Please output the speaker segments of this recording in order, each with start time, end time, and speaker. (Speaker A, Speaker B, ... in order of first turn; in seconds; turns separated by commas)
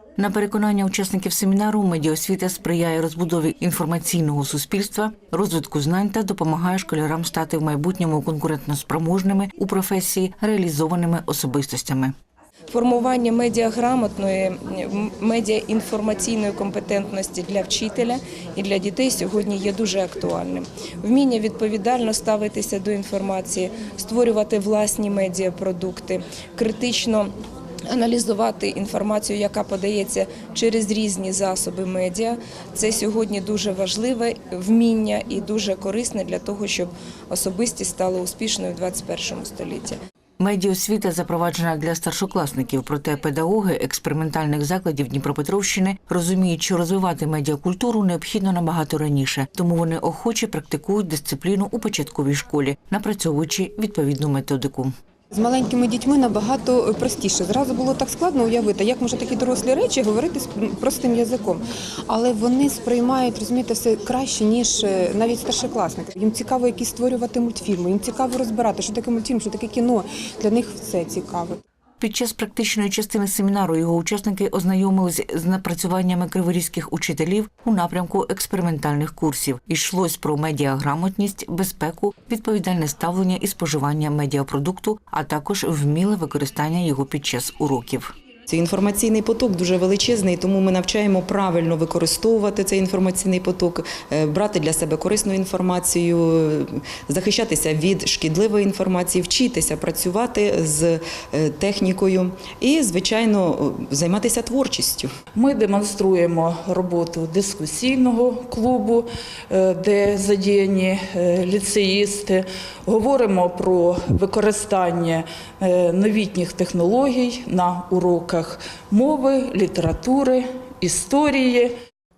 Speaker A: 0.2-12.1, Speaker B: 12.7-27.3, Speaker B: 27.9-40.0, Speaker A: 40.4-54.9, Speaker C: 55.3-71.6, Speaker A: 72.0-88.1, Speaker D: 88.5-105.1, Speaker E: 105.3-121.7